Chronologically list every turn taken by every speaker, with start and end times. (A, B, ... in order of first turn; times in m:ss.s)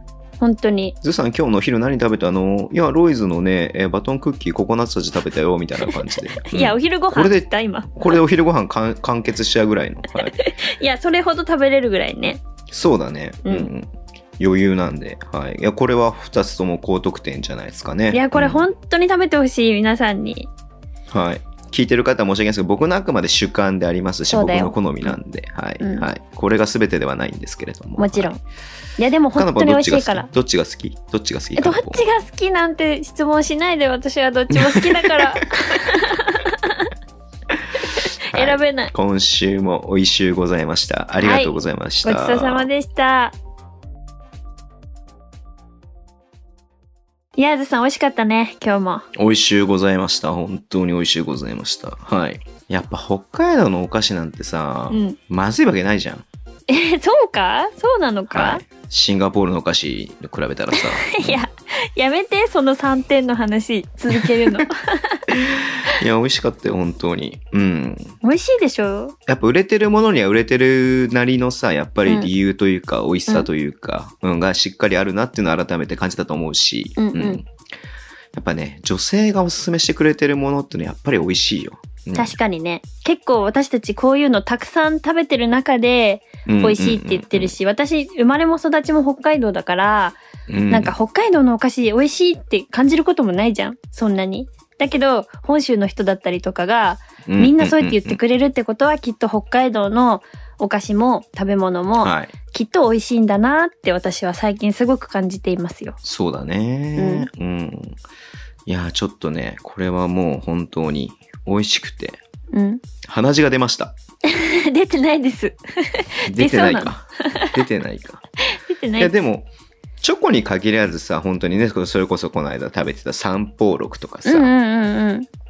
0:00.4-0:01.0 A
0:01.0-0:10.4 B
0:06.2-0:08.2 A
0:10.3-0:12.4 A
0:12.7-0:18.7 B
0:18.1-0:20.5 A
0:21.1-0:28.3 B
0:24.3-0:25.1 A
0:25.8-0:26.1 A
0:28.0-0:28.4 A
0:29.0-0:30.3 A
0:29.4-0:32.0 B
0:31.6-0:36.9 A
0:34.5-0:35.8 B
0:38.0-0:38.9 A
0:38.3-0:42.7 B
0:41.2-0:43.4 A
0:47.4-0:49.1 A
0:49.1-0:56.2 B
0:54.9-0:55.2 A
0:56.7-0:58.6 A
0:58.3-1:01.4 B
1:00.8-1:05.2 A
1:04.2-1:04.6 B
1:05.3-1:08.2 B
1:08.2-1:09.2 A
1:09.3-1:17.5 B
1:17.0-1:17.4 A
1:18.3-1:22.4 B
1:22.2-1:30.2 A
1:26.5-1:27.6 B
1:30.5-1:30.9 B
1:30.7-1:46.0 A
1:37.3-1:38.2 B
1:42.0-1:42.3 B
1:46.0-1:48.0 B
1:47.0-1:47.3 A
1:48.7-1:52.2 B
1:52.5-1:52.8 A
1:53.0-1:54.0 B
1:54.3-1:57.5 A
1:56.3-1:58.2 B
1:58.5-1:59.1 A
1:59.0-1:59.5 B
2:00.0-2:04.5 B
2:04.2-2:05.3 A